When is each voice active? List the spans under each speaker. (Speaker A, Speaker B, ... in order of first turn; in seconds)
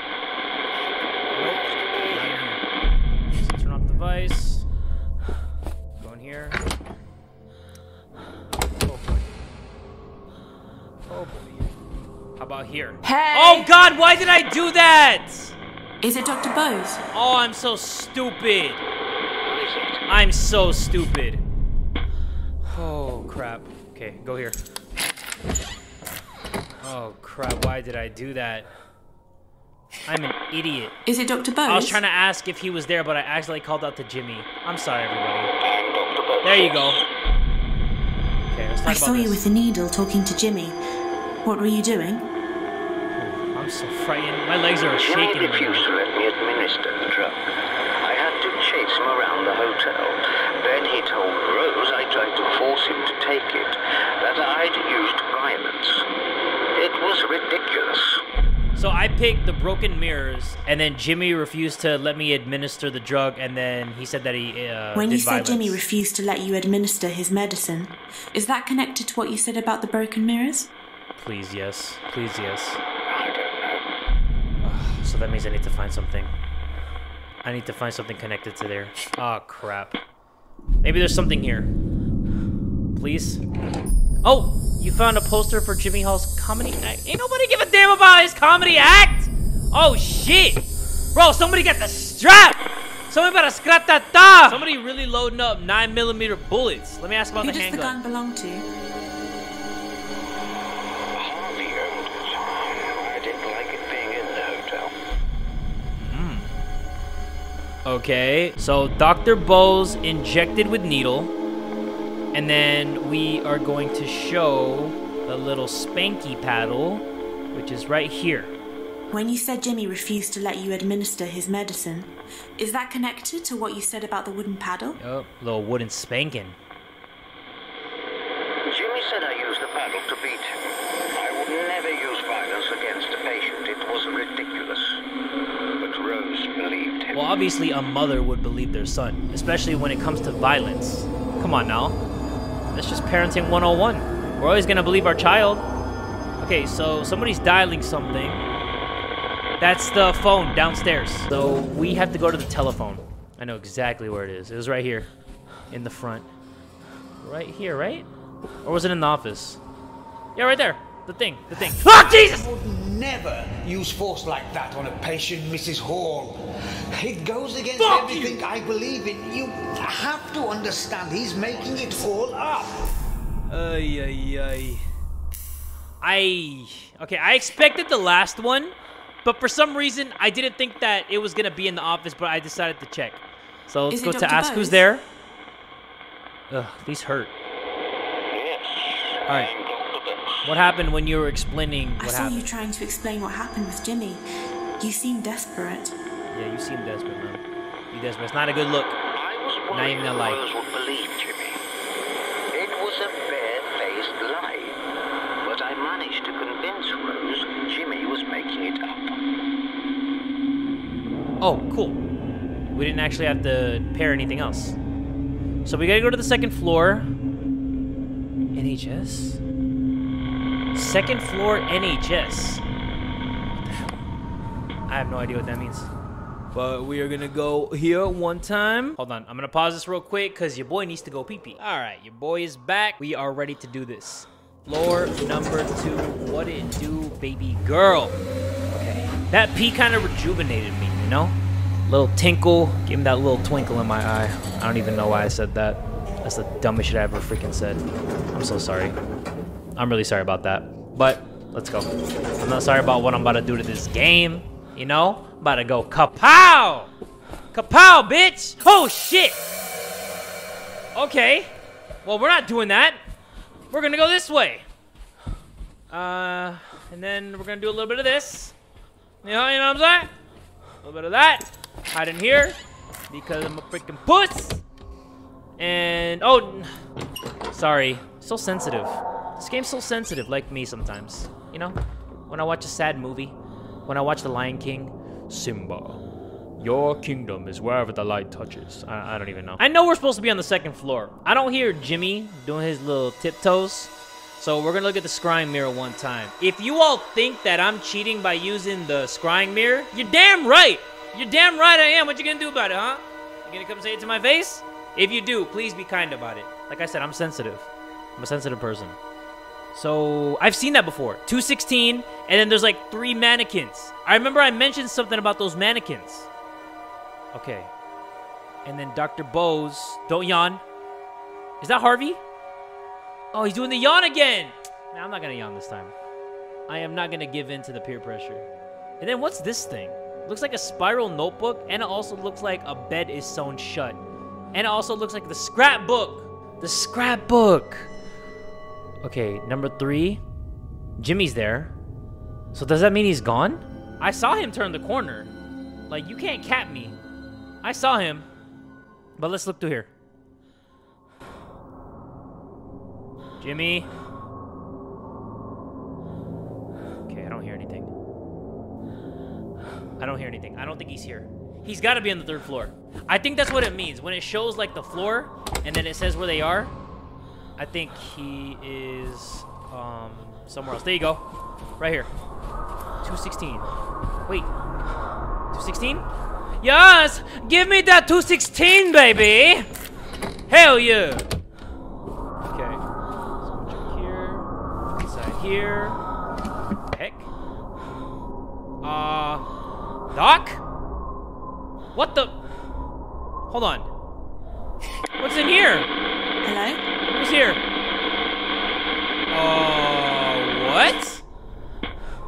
Speaker A: 1.3-2.6, 3.3-4.6, 6.0-6.6, 8.8-9.3, 11.1-11.7, 12.4-15.5, 17.1-18.8, 20.1-21.4, 22.6-24.6, 26.8-28.7, 30.1-30.9, 31.6-35.5, 36.4-37.0, 38.5-39.4, 43.1-45.9, 58.8-65.8, 71.2-72.8, 74.6-76.3, 77.4-80.0, 80.8-81.7, 82.9-83.4, 84.2-90.6, 91.1-98.0, 106.0-106.5, 107.8-111.3, 112.3-118.5, 125.0-126.6, 137.1-142.0, 142.7-145.6, 146.4-148.4, 149.6-155.1, 155.7-156.3, 157.2-158.1, 158.6-159.6, 160.3-162.5, 167.8-168.4, 173.5-174.8, 176.0-185.0, 186.5-187.3, 190.4-192.4, 196.3-199.0, 199.7-200.4, 211.4-212.0, 212.7-214.8, 215.6-217.1, 218.5-219.4, 220.7-222.6, 223.6-223.9, 224.9-225.9, 226.5-238.2, 238.7-248.9, 249.8-251.9, 252.4-256.9, 257.5-259.4, 260.9-261.5, 262.0-263.0, 263.7-264.6, 265.9-268.5, 269.2-270.1, 270.8-272.6, 273.1-274.6, 275.6-276.7, 277.5-281.8, 282.3-286.0, 286.6-309.0, 309.7-316.3, 317.3-317.7, 318.6-320.6, 321.6-322.2, 323.3-325.9, 326.7-328.5, 329.0-334.0, 334.5-337.9, 339.0-340.2, 341.0-341.7, 342.5-345.3, 345.9-346.9, 347.6-348.3, 349.2-349.9, 353.4-353.9, 357.1-357.9, 360.0-366.7, 367.6-371.2, 371.8-372.1, 373.0-373.7, 375.5-376.1, 376.6-379.7, 380.5-381.2, 382.5-382.8, 383.4-384.5, 385.0-386.0, 386.9-387.3, 388.8-389.4, 390.1-390.6, 391.9-392.3, 393.5-393.9, 395.2-395.9, 397.1-397.6, 399.3-401.2
Speaker B: 13.0-13.7, 16.0-17.0, 31.1-32.0, 38.9-40.8, 41.4-42.3, 64.9-70.7, 97.4-98.7, 119.1-125.0, 183.9-184.8, 192.0-194.2, 194.8-195.9, 396.4-396.8
Speaker C: 19.4-20.1, 35.6-37.1, 45.0-47.4, 48.0-56.0, 56.8-58.2, 73.1-73.8, 101.1-104.9, 128.7-130.5, 131.1-135.0, 135.8-137.2, 188.3-190.5, 199.1-201.6, 202.5-204.8, 205.4-209.2
Speaker D: 161.9-172.9